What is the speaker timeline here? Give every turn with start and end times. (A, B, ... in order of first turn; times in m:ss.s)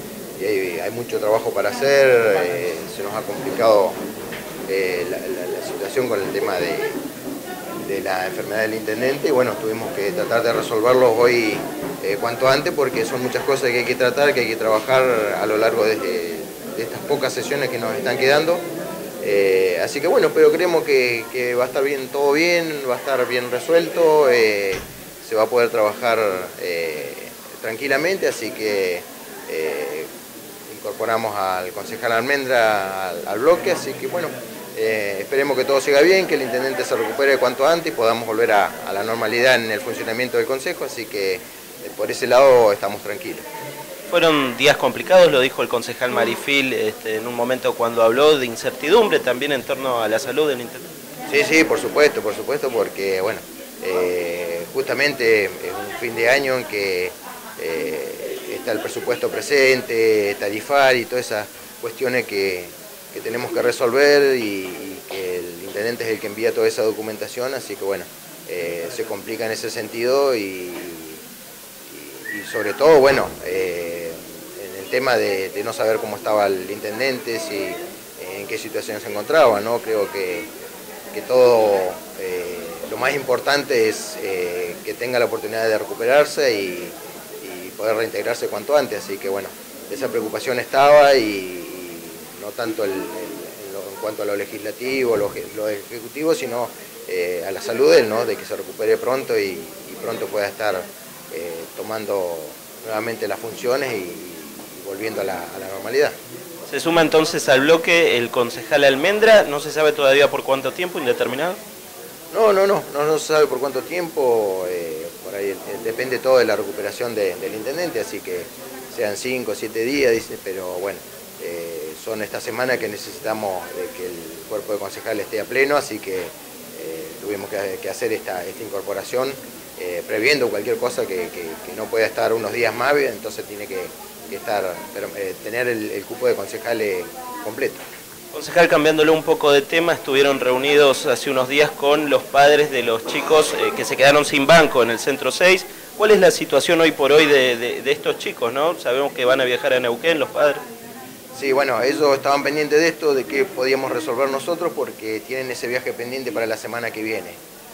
0:00.4-0:04.0 A
0:04.7-0:07.0 A
0:07.8-0:18.6 A
0:19.2-0:30.1 A
0:30.7-0:43.4 A
0:44.1-0:50.8 B
0:51.3-1:11.2 A
1:11.9-1:20.5 A
1:21.1-1:46.2 A
1:46.7-1:51.6 B
1:52.3-2:17.8 A
2:18.3-2:30.6 B
2:31.3-2:37.4 A